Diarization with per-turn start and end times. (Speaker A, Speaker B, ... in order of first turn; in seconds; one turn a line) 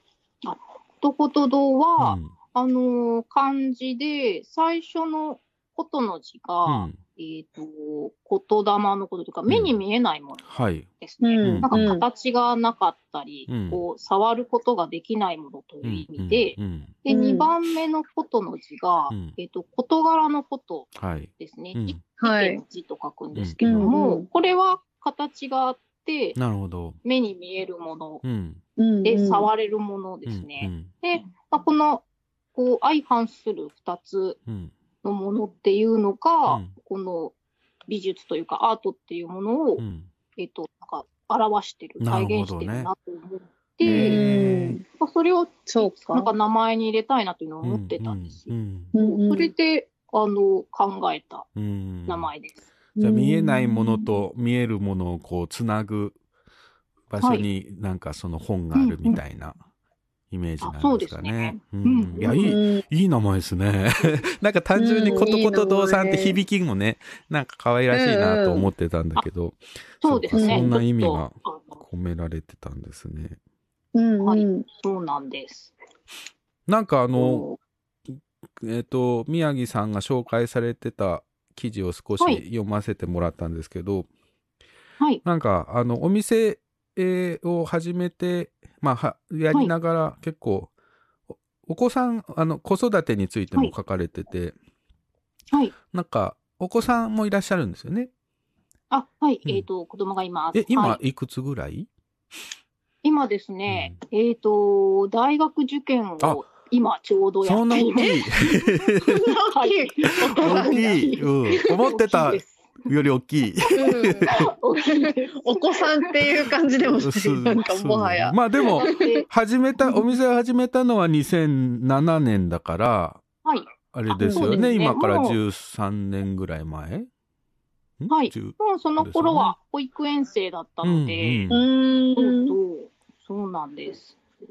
Speaker A: 0.4-26.4
Speaker B: 2.0-2.3
Speaker B: 6.7-7.0
Speaker B: 9.5-9.8
Speaker B: 10.5-10.9
Speaker C: 11.2-12.1
Speaker B: 11.4-12.0
Speaker B: 13.5-13.8
Speaker B: 15.8-16.9
Speaker C: 17.1-17.5
Speaker B: 19.1-19.4
Speaker B: 20.9-22.0
Speaker C: 22.2-22.6
Speaker B: 23.4-23.9
Speaker C: 23.6-24.3
Speaker B: 26.4-27.0
Speaker A: 27.0-28.2
Speaker B: 28.2-28.6
Speaker C: 28.8-29.5
Speaker A: 29.0-34.4
Speaker B: 30.3-30.9
Speaker B: 34.5-34.7
Speaker A: 35.0-37.3
Speaker B: 36.5-36.7
Speaker A: 37.9-39.8
Speaker B: 39.8-40.1
Speaker A: 40.4-44.2
Speaker B: 42.0-42.9
Speaker B: 43.8-44.8
Speaker C: 43.9-44.8
Speaker A: 44.9-51.5
Speaker C: 45.7-46.3
Speaker B: 47.6-48.9
Speaker C: 48.9-49.5
Speaker B: 51.6-52.3
Speaker A: 52.1-52.6
Speaker C: 53.0-54.1
Speaker B: 53.0-56.2
Speaker B: 57.1-59.6
Speaker A: 57.2-57.5
Speaker A: 58.7-59.2
Speaker B: 60.3-73.4
Speaker A: 60.6-62.6
Speaker C: 62.2-62.8
Speaker C: 64.8-66.4
Speaker A: 65.1-65.3
Speaker C: 67.9-68.7
Speaker A: 70.0-71.8
Speaker C: 70.3-70.8
Speaker C: 74.0-74.7
Speaker A: 74.2-75.7
Speaker B: 76.7-77.5
Speaker A: 77.1-77.6
Speaker B: 78.6-84.1
Speaker B: 85.2-90.7
Speaker B: 91.6-94.5
Speaker B: 95.9-98.1
Speaker A: 98.9-101.0
Speaker B: 100.5-101.9
Speaker A: 103.0-108.5
Speaker B: 103.7-104.0
Speaker B: 107.4-109.2
Speaker C: 109.2-110.9
Speaker A: 109.5-112.6
Speaker B: 110.4-114.4
Speaker A: 113.7-116.3
Speaker C: 113.8-119.0
Speaker B: 117.0-123.2
Speaker A: 118.8-119.3
Speaker A: 123.5-125.4
Speaker B: 123.9-127.1
Speaker C: 124.2-124.7
Speaker B: 128.0-129.6
Speaker A: 128.1-131.5
Speaker B: 130.8-131.6
Speaker C: 131.5-132.6
Speaker A: 132.2-134.2